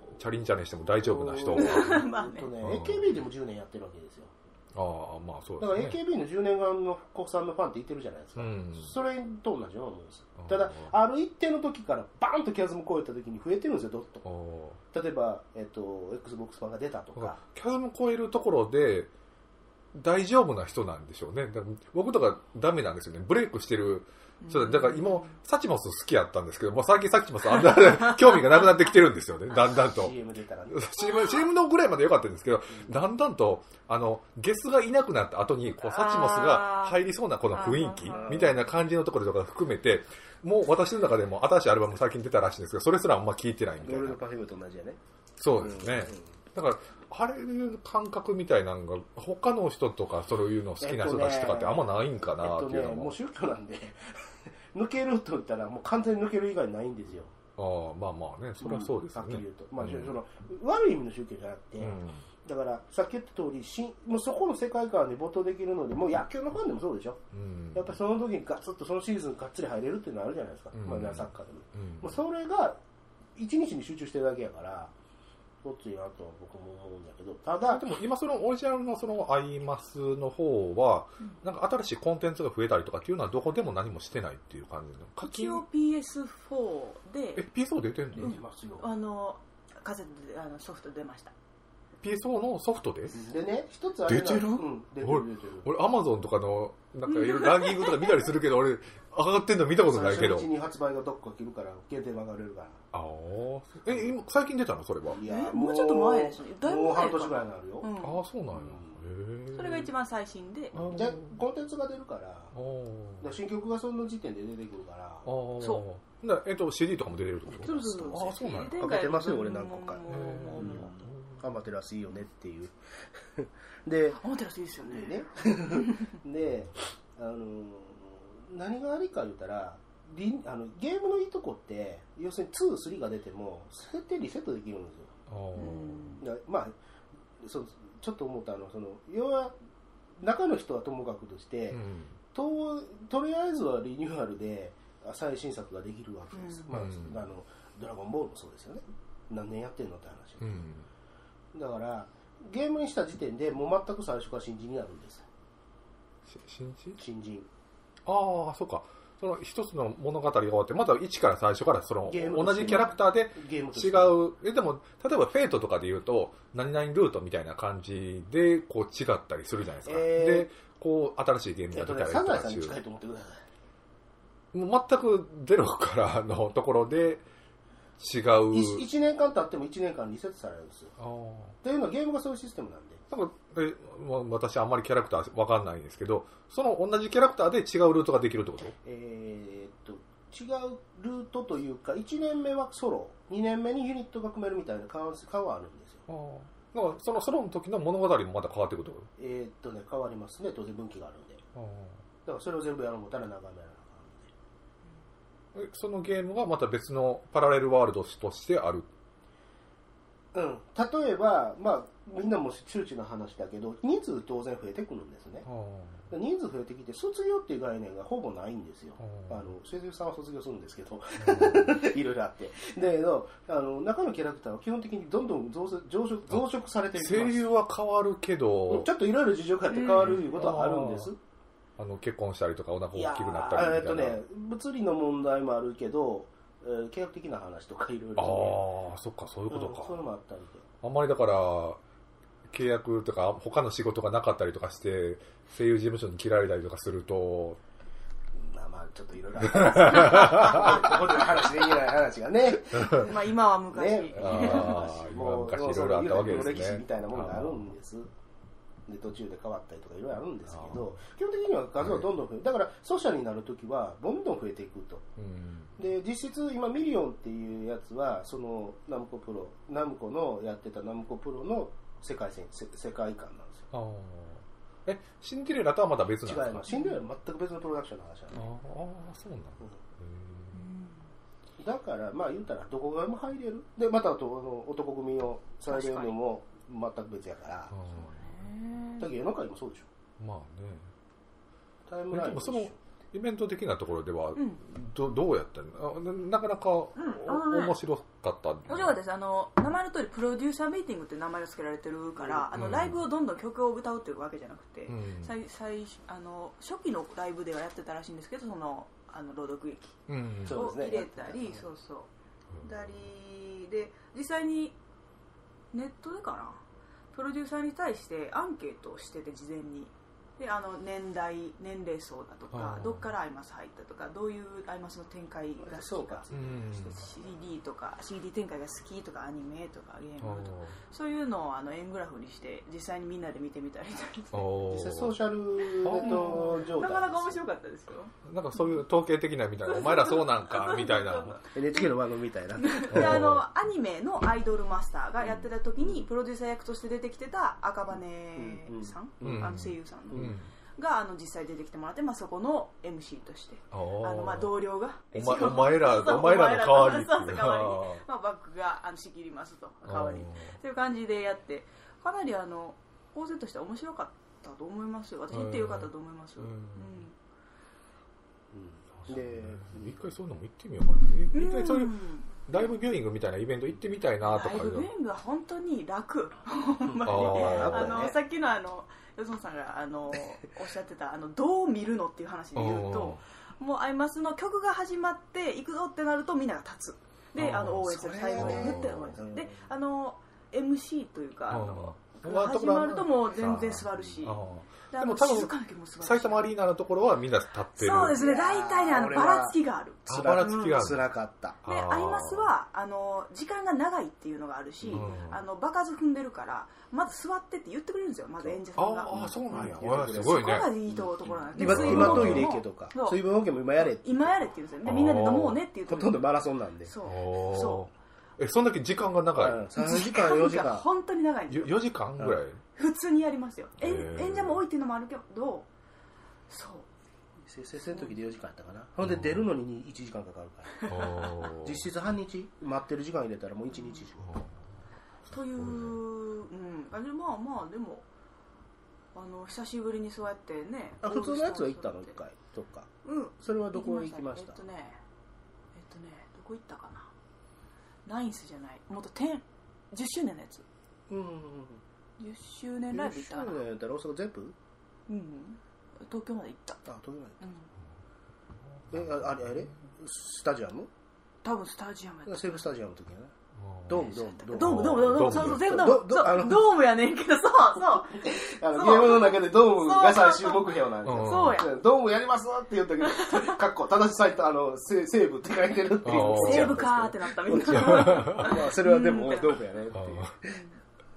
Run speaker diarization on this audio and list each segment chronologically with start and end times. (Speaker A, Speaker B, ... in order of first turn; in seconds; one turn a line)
Speaker A: 0.1-2.0
Speaker B: 1.0-4.3
Speaker C: 1.6-2.5
Speaker A: 2.6-3.2
Speaker A: 4.7-6.0
Speaker B: 5.6-14.2
Speaker A: 8.4-8.9
Speaker A: 10.4-10.9
Speaker A: 14.2-14.8
Speaker B: 14.9-17.4
Speaker A: 17.2-19.1
Speaker A: 19.9-30.2
Speaker C: 24.4-25.3
Speaker B: 29.7-30.9
Speaker A: 30.7-44.2
Speaker C: 35.8-37.0
Speaker C: 37.5-38.4
Speaker B: 38.0-38.6
Speaker B: 43.8-45.0
Speaker A: 45.4-53.1
Speaker B: 45.6-46.2
Speaker B: 50.8-54.1
Speaker B: 54.7-57.3
Speaker A: 57.6-60.2
Speaker B: 58.6-67.2
Speaker A: 61.8-62.2
Speaker A: 67.3-68.0
Speaker B: 67.7-72.8
Speaker A: 70.7-72.2
Speaker B: 73.4-74.9
Speaker B: 75.6-77.8
Speaker A: 77.6-85.6
Speaker C: 85.2-87.5
Speaker A: 87.4-88.3
Speaker B: 88.2-88.9
Speaker C: 88.2-91.3
Speaker A: 92.0-93.2
Speaker B: 93.1-95.7
Speaker A: 94.1-100.5
Speaker C: 97.1-98.2
Speaker B: 99.9-102.8
Speaker A: 102.9-105.2
Speaker B: 105.1-107.9
Speaker C: 105.2-108.2
Speaker A: 108.0-109.9
Speaker B: 108.5-109.0
Speaker C: 109.5-110.8
Speaker A: 110.7-111.4
Speaker B: 110.8-112.5
Speaker A: 112.5-113.3
Speaker B: 113.2-115.3
Speaker A: 115.2-118.8
Speaker B: 117.5-124.2
Speaker C: 117.6-121.0
Speaker A: 120.1-121.4
Speaker C: 124.2-126.2
Speaker B: 124.8-135.1
Speaker A: 135.3-136.2
Speaker C: 135.6-136.2
Speaker B: 136.2-136.8
Speaker B: 137.4-139.6
Speaker B: 140.2-141.8
Speaker A: 141.7-142.2
Speaker B: 142.3-150.7
Speaker C: 146.3-146.7
Speaker A: 146.7-147.2
Speaker A: 150.4-150.9
Speaker B: 151.5-155.3
Speaker A: 156.3-157.0
Speaker B: 157.0-157.5
Speaker A: 158.1-172.8
Speaker B: 162.1-164.2
Speaker B: 169.8-170.5
Speaker B: 171.7-173.4
Speaker A: 174.5-177.2
Speaker A: 178.0-178.8
Speaker B: 178.5-180.9
Speaker A: 181.0-181.6
Speaker B: 181.6-183.0
Speaker A: 183.1-188.8
Speaker B: 188.8-196.0
Speaker A: 196.1-199.1
Speaker B: 199.2-201.4
Speaker A: 201.6-202.0
Speaker B: 202.3-204.3
Speaker A: 205.6-208.9
Speaker B: 210.3-215.5
Speaker A: 215.4-216.1
Speaker B: 216.1-227.5
Speaker A: 219.0-219.5
Speaker A: 221.2-221.7
Speaker A: 226.9-228.9
Speaker B: 228.7-231.2
Speaker C: 229.7-230.4
Speaker A: 230.1-231.1
Speaker A: 231.8-234.2
Speaker B: 232.9-238.6
Speaker A: 238.2-240.0
Speaker B: 239.5-240.7
Speaker A: 240.8-241.8
Speaker A: 242.5-247.6
Speaker B: 248.4-258.1
Speaker A: 249.5-250.9
Speaker C: 250.2-250.6
Speaker C: 252.7-254.9
Speaker A: 252.8-253.1
Speaker A: 254.1-257.7
Speaker B: 258.9-265.1
Speaker A: 260.5-260.9
Speaker A: 265.2-265.8
Speaker B: 265.8-273.7
Speaker A: 273.7-276.7
Speaker B: 276.2-278.4
Speaker C: 276.7-277.0
Speaker A: 278.3-280.6
Speaker C: 280.6-281.0
Speaker B: 281.6-287.7
Speaker C: 285.7-286.2
Speaker A: 287.7-288.3
Speaker C: 287.9-289.1
Speaker B: 289.0-289.9
Speaker A: 290.2-290.9
Speaker B: 291.9-292.8
Speaker A: 292.1-299.0
Speaker C: 294.4-294.6
Speaker C: 297.0-297.8
Speaker C: 298.7-312.1
Speaker B: 302.2-302.5
Speaker A: 302.5-303.0
Speaker A: 304.9-305.3
Speaker A: 310.1-310.6
Speaker B: 310.5-311.7
Speaker C: 312.6-314.8
Speaker C: 315.7-316.6
Speaker C: 317.1-334.6
Speaker A: 322.5-323.1
Speaker B: 325.6-327.3
Speaker A: 326.3-327.0
Speaker A: 330.2-330.8
Speaker A: 334.3-335.2
Speaker B: 334.7-337.4
Speaker A: 335.8-336.6
Speaker C: 335.9-338.1
Speaker A: 338.2-341.4
Speaker C: 339.6-342.0
Speaker B: 341.5-343.3
Speaker C: 342.5-367.1
Speaker A: 342.9-343.4
Speaker B: 345.3-346.1
Speaker B: 348.4-349.5
Speaker A: 349.2-350.5
Speaker B: 350.1-350.4
Speaker A: 353.7-354.5
Speaker A: 355.1-358.0
Speaker A: 359.9-360.6
Speaker A: 365.3-367.0
Speaker B: 368.5-370.0
Speaker A: 369.0-374.9
Speaker C: 371.3-372.3
Speaker C: 374.2-394.4
Speaker B: 376.9-378.2
Speaker A: 377.0-378.0
Speaker A: 382.6-383.2
Speaker A: 387.4-389.2
Speaker B: 387.8-389.6
Speaker A: 391.5-398.2
Speaker C: 394.9-396.5
Speaker C: 397.8-401.0
Speaker B: 398.1-401.6
Speaker A: 400.1-401.1
Speaker A: 401.6-402.5
Speaker C: 401.7-413.2
Speaker B: 404.8-405.1
Speaker A: 404.9-405.4
Speaker B: 408.4-414.5
Speaker A: 408.8-410.7
Speaker A: 411.6-412.5
Speaker C: 413.8-416.2
Speaker A: 414.9-415.6
Speaker B: 415.9-416.9
Speaker C: 416.9-417.9
Speaker A: 417.1-419.6
Speaker B: 419.4-420.9
Speaker C: 419.8-421.9
Speaker A: 421.5-422.6
Speaker C: 422.8-425.7
Speaker A: 423.8-424.6
Speaker C: 426.5-426.9
Speaker B: 427.4-434.4
Speaker A: 429.0-429.4
Speaker C: 430.8-431.3
Speaker A: 430.9-431.9
Speaker C: 433.8-434.1
Speaker A: 434.2-434.5
Speaker C: 435.3-438.1
Speaker A: 435.3-436.0
Speaker C: 439.1-442.2
Speaker B: 441.0-442.9
Speaker C: 443.1-445.0
Speaker B: 443.4-444.6
Speaker C: 445.7-447.1
Speaker C: 448.1-450.6
Speaker B: 451.1-451.8
Speaker C: 452.2-453.6
Speaker B: 452.9-454.6
Speaker C: 455.1-456.8
Speaker B: 456.9-457.4
Speaker C: 457.4-457.7
Speaker A: 458.9-459.7
Speaker B: 458.9-460.9
Speaker C: 461.4-462.6
Speaker B: 462.3-463.3
Speaker A: 463.6-464.0
Speaker B: 463.9-466.7
Speaker C: 463.9-471.7
Speaker A: 464.6-465.7
Speaker B: 468.1-480.6
Speaker A: 471.0-471.6
Speaker C: 473.0-473.6
Speaker A: 476.0-476.9
Speaker C: 476.1-479.7
Speaker A: 477.7-478.6
Speaker A: 479.9-480.4
Speaker C: 480.4-480.8